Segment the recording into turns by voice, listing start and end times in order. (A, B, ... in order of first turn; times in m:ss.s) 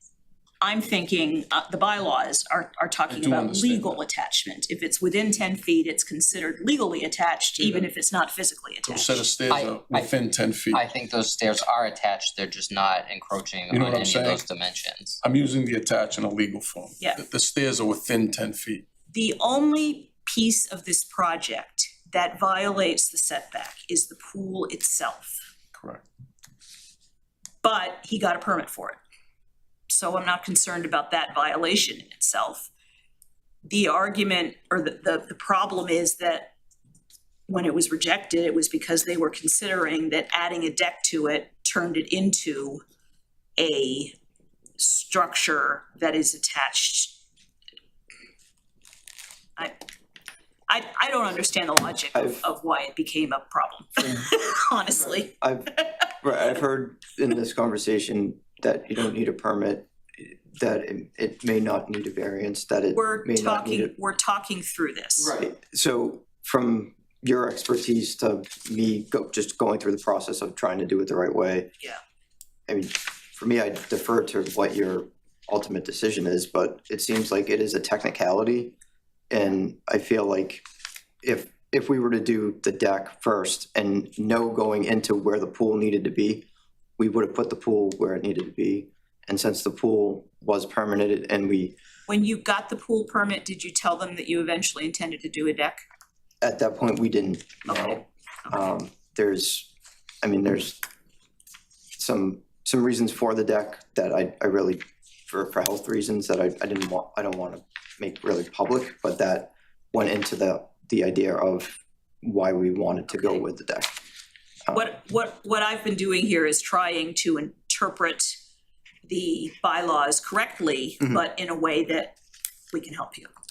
0:00.6-0:09.3 A
0:03.1-0:04.0 B
0:07.6-0:07.9 B
0:08.8-0:10.8 B
0:09.5-0:10.1 C
0:10.7-0:15.2 C
0:13.7-0:14.5 B
0:15.2-0:18.9 B
0:19.1-0:25.4 A
0:25.8-0:26.0 B
0:27.6-0:29.0 A
0:29.9-0:32.7 A
0:33.7-0:36.5 A
0:37.5-0:42.8 A
0:43.6-0:44.2 A
0:44.8-0:47.2 A
0:50.7-0:56.0 A
0:52.1-0:52.4 D
0:55.4-1:04.0 D
1:02.9-1:05.4 A
1:05.2-1:11.7 D
1:12.7-1:18.7 D
1:19.3-1:20.6 D
1:21.2-1:26.4 D
1:27.0-1:31.8 D
1:32.1-1:35.8 A
1:36.4-1:39.7 D
1:37.7-1:38.0 A
1:40.2-1:40.8 D
1:42.0-1:54.0 D
1:53.1-1:53.4 A
1:54.7-1:58.4 A
1:59.0-2:02.2 A
2:02.7-2:03.3 A